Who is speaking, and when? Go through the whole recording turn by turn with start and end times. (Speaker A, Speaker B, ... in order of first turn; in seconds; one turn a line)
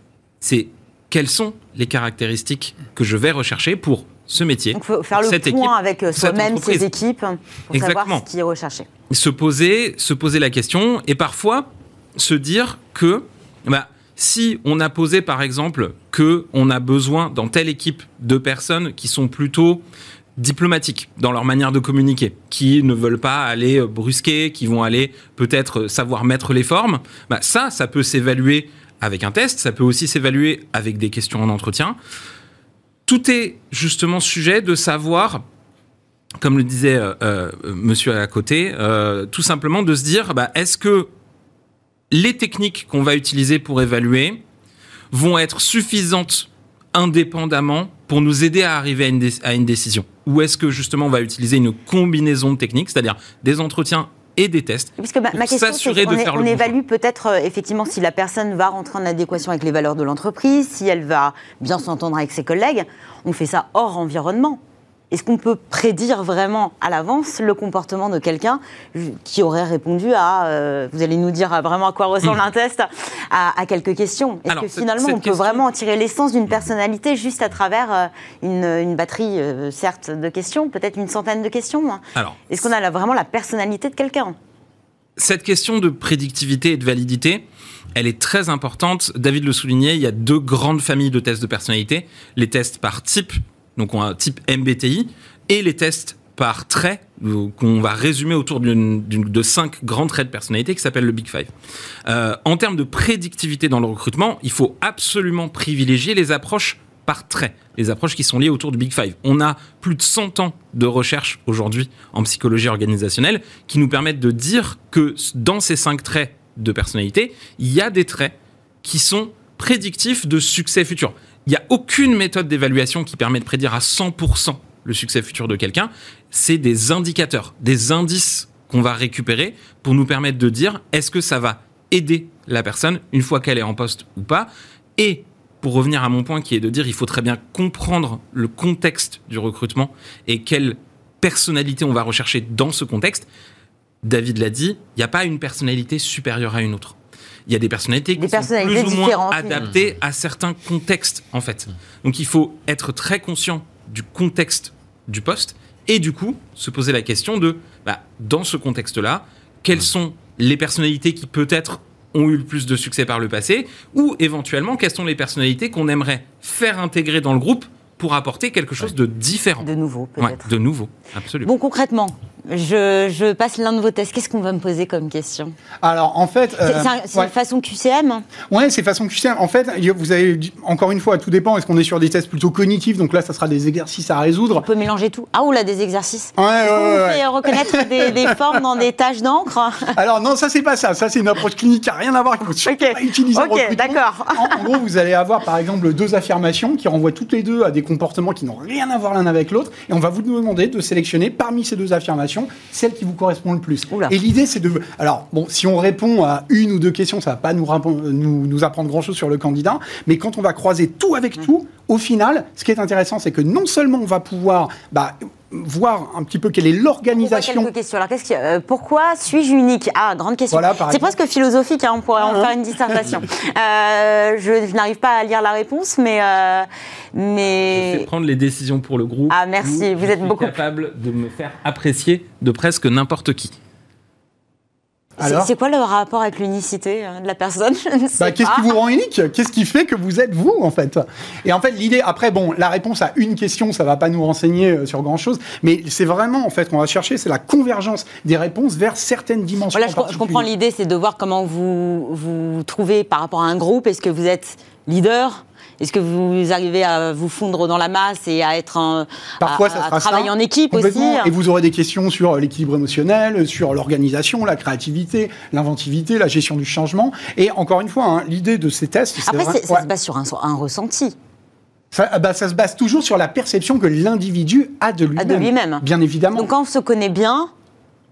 Speaker A: 0.4-6.9
Speaker B: 4.7-8.9
Speaker A: 7.7-8.2
Speaker A: 9.1-19.8
Speaker A: 20.4-32.0
Speaker A: 33.1-35.4
Speaker A: 36.4-41.1
Speaker A: 42.1-44.4
Speaker A: 45.1-56.8
Speaker B: 55.0-64.6
Speaker B: 65.1-84.4
Speaker A: 74.5-75.6
Speaker A: 82.1-82.4
Speaker A: 85.2-87.4
Speaker A: 88.0-101.5
Speaker A: 102.1-143.2
Speaker A: 144.0-169.7
Speaker B: 148.2-149.7
Speaker B: 169.6-170.5
Speaker A: 170.2-171.5
Speaker B: 171.4-175.6
Speaker C: 175.8-177.3
Speaker B: 176.7-178.2
Speaker C: 178.5-184.7
Speaker B: 184.6-190.0
Speaker C: 186.4-188.3
Speaker C: 190.0-217.7
Speaker B: 192.7-194.7
Speaker B: 203.9-204.2
Speaker B: 217.2-228.1
Speaker C: 220.5-221.1
Speaker C: 222.2-223.1
Speaker A: 227.6-233.5
Speaker B: 229.3-230.6
Speaker C: 235.2-235.5
Speaker B: 235.2-238.7
Speaker C: 238.2-250.5
Speaker B: 249.7-261.3
Speaker C: 259.4-269.9
Speaker B: 269.2-271.1
Speaker C: 271.9-276.5
Speaker B: 275.1-275.8
Speaker B: 276.4-277.5